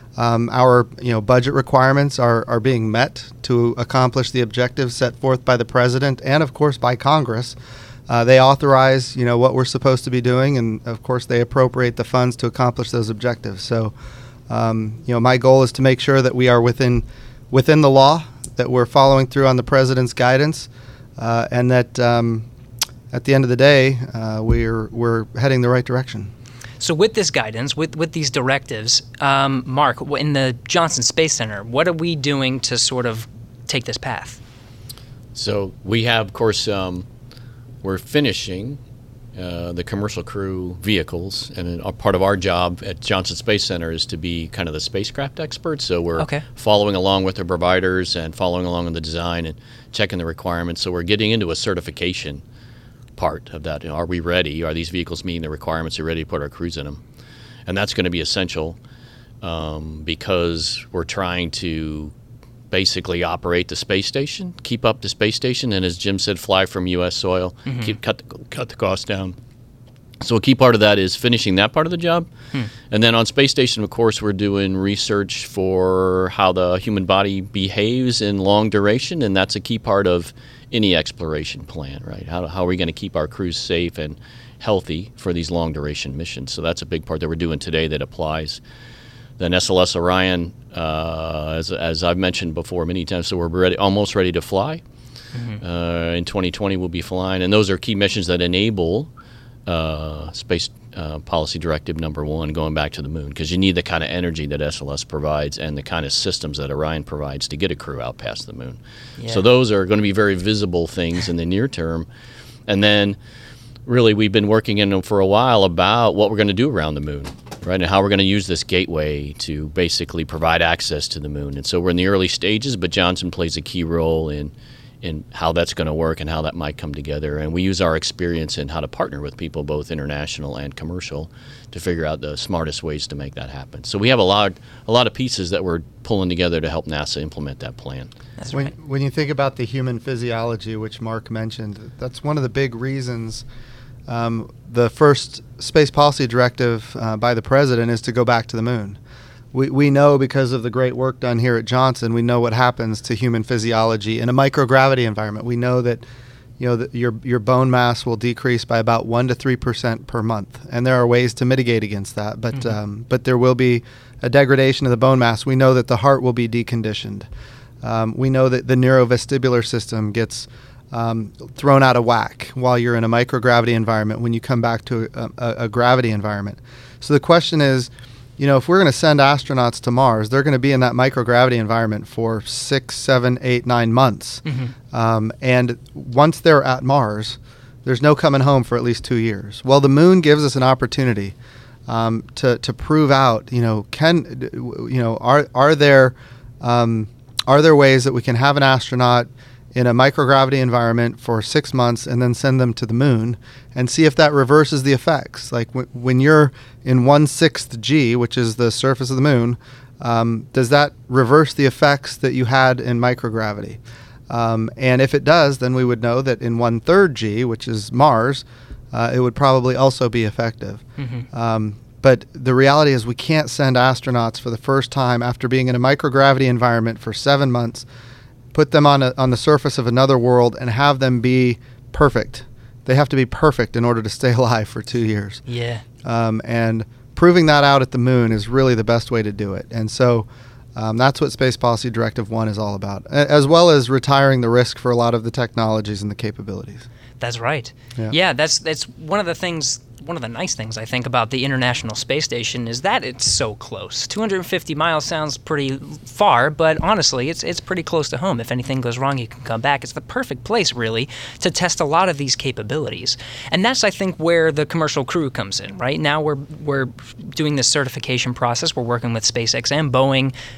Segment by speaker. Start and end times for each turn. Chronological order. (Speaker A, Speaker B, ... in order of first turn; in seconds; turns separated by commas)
Speaker A: 0.1-7.5, Speaker A: 8.1-13.9, Speaker A: 14.5-22.4, Speaker A: 23.1-26.3, Speaker B: 26.8-34.4, Speaker C: 35.3-37.1, Speaker C: 37.8-38.8, Speaker C: 39.3-52.4, Speaker B: 46.2-46.4, Speaker C: 53.2-57.0, Speaker C: 57.6-58.8, Speaker C: 59.4-62.1, Speaker C: 62.7-69.3, Speaker B: 67.7-68.0, Speaker C: 70.2-72.3, Speaker C: 72.8-88.6, Speaker C: 89.4-94.8, Speaker B: 95.3-95.6, Speaker C: 95.6-99.1, Speaker C: 99.7-112.1, Speaker C: 112.7-113.2, Speaker C: 113.8-138.1, Speaker B: 138.4-138.7, Speaker A: 138.5-143.4, Speaker A: 144.1-149.0, Speaker A: 149.5-156.0, Speaker A: 156.6-167.3, Speaker A: 167.8-191.3, Speaker B: 184.4-184.7, Speaker A: 191.9-227.8, Speaker B: 221.0-221.2, Speaker A: 228.5-235.4, Speaker B: 235.5-235.8, Speaker A: 236.0-246.9, Speaker B: 247.2-270.3